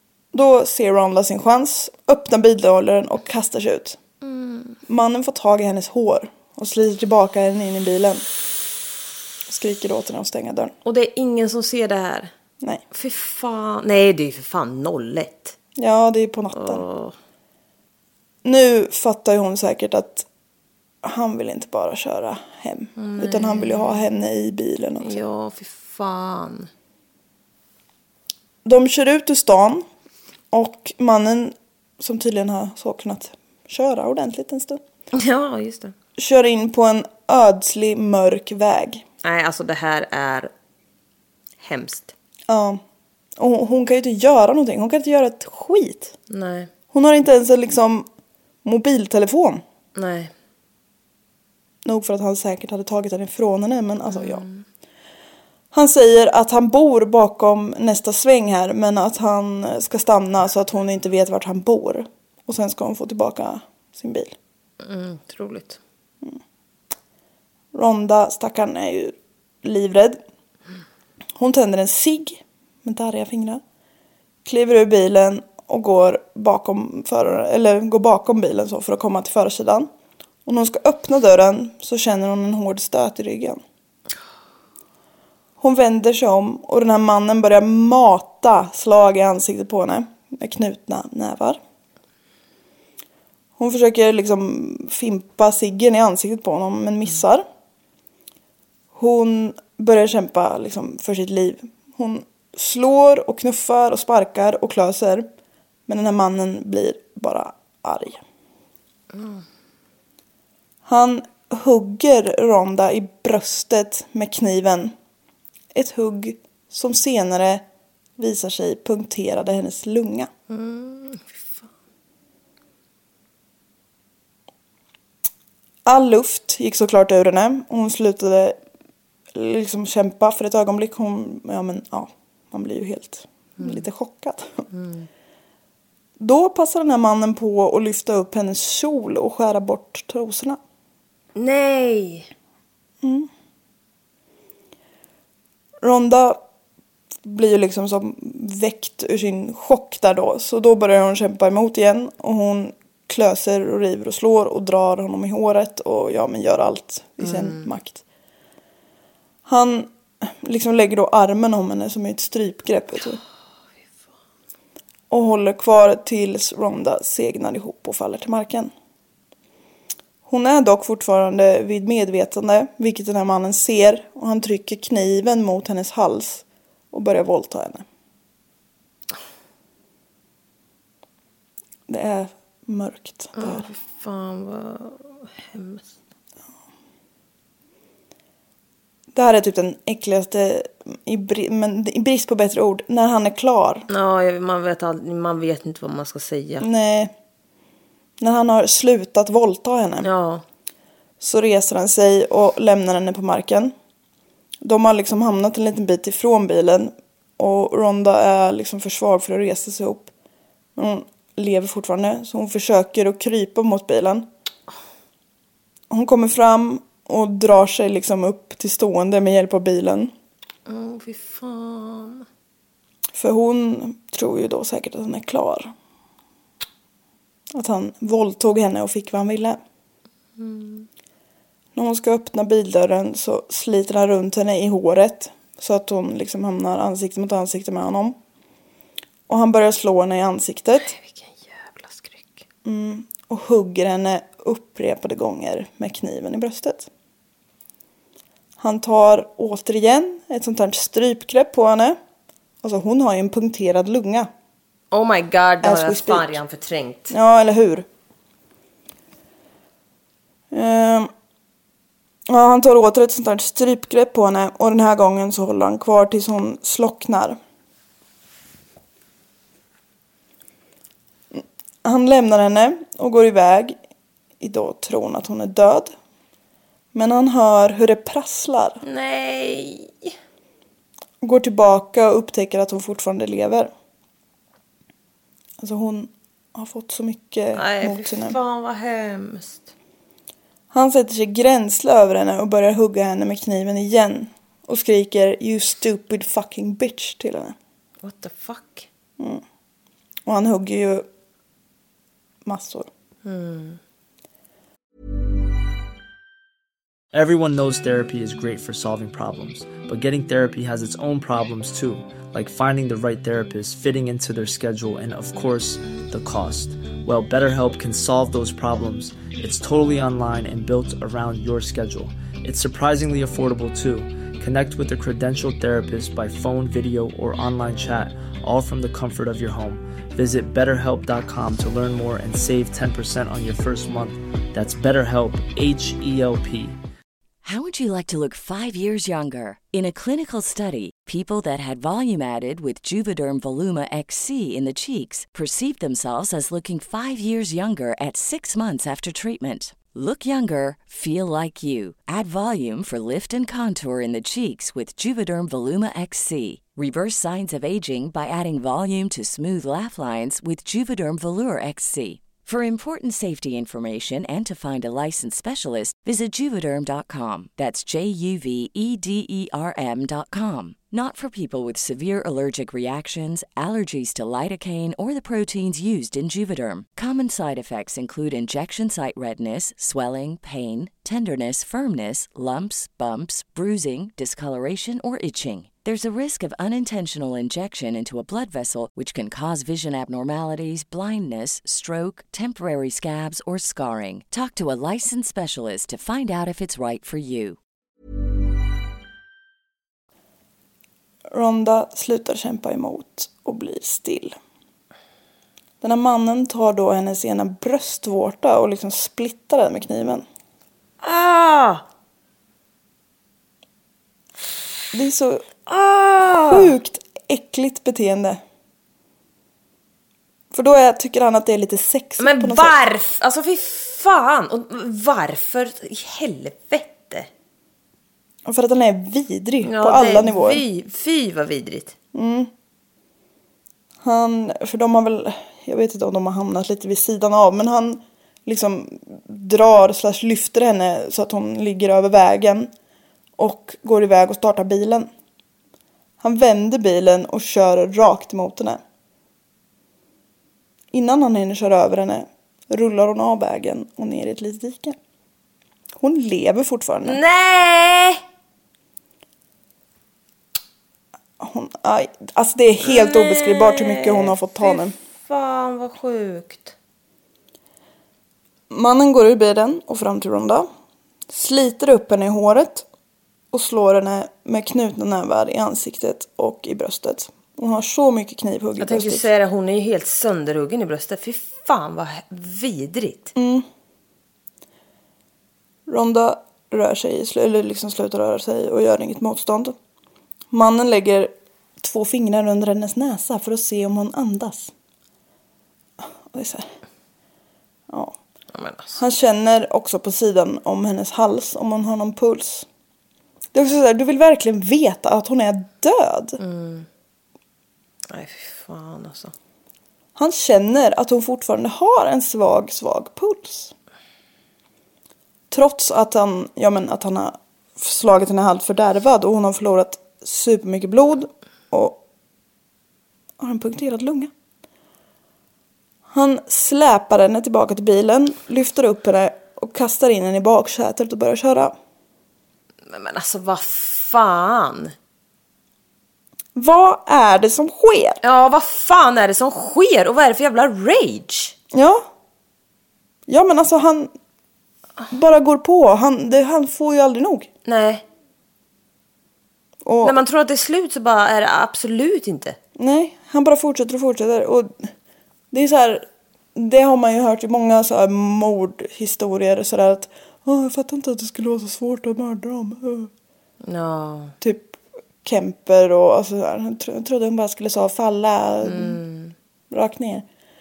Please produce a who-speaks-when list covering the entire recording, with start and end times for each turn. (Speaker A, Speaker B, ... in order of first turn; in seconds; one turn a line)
Speaker A: 0.3-4.0
Speaker B: 4.2-4.8
Speaker A: 4.9-8.2
Speaker A: 9.5-10.7
Speaker B: 10.8-12.3
Speaker B: 12.9-15.6
Speaker A: 15.8-16.8
Speaker B: 16.5-17.1
Speaker A: 18.4-20.3
Speaker A: 21.0-25.2
Speaker B: 23.0-24.0
Speaker B: 25.0-26.7
Speaker A: 28.6-29.9
Speaker A: 30.5-34.8
Speaker B: 35.1-35.9
Speaker A: 36.2-39.0
Speaker B: 39.2-40.5
Speaker B: 41.6-42.1
Speaker A: 42.5-42.8
Speaker A: 43.4-46.1
Speaker B: 46.3-46.7
Speaker A: 46.9-48.1
Speaker A: 48.6-49.6
Speaker B: 49.9-50.3
Speaker A: 51.8-54.4
Speaker B: 54.1-54.6
Speaker A: 55.7-64.3
Speaker B: 64.8-65.8
Speaker A: 67.7-70.2
Speaker A: 71.3-73.6
Speaker A: 74.4-79.9
Speaker A: 80.4-83.6
Speaker A: 85.6-91.6
Speaker A: 93.6-97.4
Speaker A: 98.9-105.3
Speaker A: 105.9-108.2
Speaker B: 109.1-109.4
Speaker A: 110.8-114.9
Speaker A: 115.7-117.6
Speaker A: 118.2-120.3
Speaker B: 120.5-121.7
Speaker A: 125.8-128.6
Speaker A: 129.3-134.6
Speaker B: 133.6-133.8
Speaker B: 134.7-135.1
Speaker A: 136.2-140.6
Speaker B: 141.3-142.3
Speaker A: 143.0-143.3
Speaker A: 145.8-146.4
Speaker A: 147.2-158.0
Speaker B: 157.2-157.7
Speaker A: 159.4-163.2
Speaker A: 165.1-168.7
Speaker A: 170.2-177.8
Speaker A: 181.9-183.7
Speaker B: 183.3-185.8
Speaker A: 189.1-193.9
Speaker B: 193.9-196.7
Speaker A: 196.6-197.1
Speaker A: 198.2-200.1
Speaker B: 200.0-200.4
Speaker A: 201.2-203.7
Speaker A: 204.6-210.1
Speaker A: 210.8-214.3
Speaker A: 215.9-220.1
Speaker B: 220.7-222.2
Speaker A: 223.1-225.7
Speaker A: 227.5-229.6
Speaker B: 230.4-230.9
Speaker A: 231.7-238.2
Speaker A: 239.3-240.9
Speaker B: 240.8-242.4
Speaker A: 242.6-246.9
Speaker A: 248.6-252.0
Speaker A: 252.6-254.3
Speaker B: 254.9-257.1
Speaker A: 255.6-256.4
Speaker A: 257.1-257.9
Speaker A: 260.5-261.1
Speaker A: 262.3-267.4
Speaker A: 271.3-273.8
Speaker A: 274.4-275.9
Speaker A: 276.9-278.8
Speaker B: 278.8-280.1
Speaker A: 281.2-283.7
Speaker A: 285.6-288.4
Speaker B: 287.5-289.7
Speaker A: 290.7-297.6
Speaker B: 298.0-298.9
Speaker A: 299.2-299.4
Speaker A: 300.2-301.1
Speaker A: 302.4-302.9
Speaker B: 303.2-303.8
Speaker C: 307.1-336.8
Speaker D: 337.4-397.6
Speaker A: 401.3-404.4
Speaker A: 405.8-410.2
Speaker B: 411.0-411.8
Speaker A: 414.9-415.5
Speaker B: 415.6-416.7
Speaker A: 416.4-418.4
Speaker A: 420.5-422.8
Speaker B: 422.2-427.3
Speaker A: 428.4-430.6
Speaker B: 429.6-431.9
Speaker A: 432.1-432.5
Speaker A: 434.0-442.7
Speaker A: 443.4-445.1
Speaker A: 446.2-448.8
Speaker A: 450.9-455.0
Speaker A: 456.0-457.2
Speaker B: 457.0-458.2
Speaker A: 461.4-464.9
Speaker B: 462.8-466.7
Speaker A: 468.7-470.7
Speaker A: 471.3-472.9
Speaker A: 473.5-479.2
Speaker B: 478.8-483.3
Speaker A: 483.3-483.6
Speaker A: 485.9-489.8
Speaker A: 490.5-494.7
Speaker A: 496.0-496.7
Speaker A: 497.9-498.2
Speaker B: 498.5-499.0
Speaker A: 498.9-502.6
Speaker A: 503.5-506.4
Speaker B: 506.4-506.9
Speaker B: 508.1-509.3
Speaker A: 510.1-513.7
Speaker A: 515.5-522.0
Speaker A: 523.4-524.3
Speaker A: 526.1-531.8
Speaker B: 532.9-534.9
Speaker A: 536.5-538.2
Speaker B: 538.2-541.5
Speaker A: 541.7-542.1
Speaker A: 543.3-544.1
Speaker A: 545.1-547.5
Speaker B: 547.6-548.0
Speaker A: 549.8-550.2
Speaker B: 550.0-552.6
Speaker A: 552.8-554.9
Speaker A: 555.5-563.1
Speaker B: 563.6-564.3
Speaker A: 564.4-569.0
Speaker B: 568.6-569.3
Speaker A: 569.7-570.2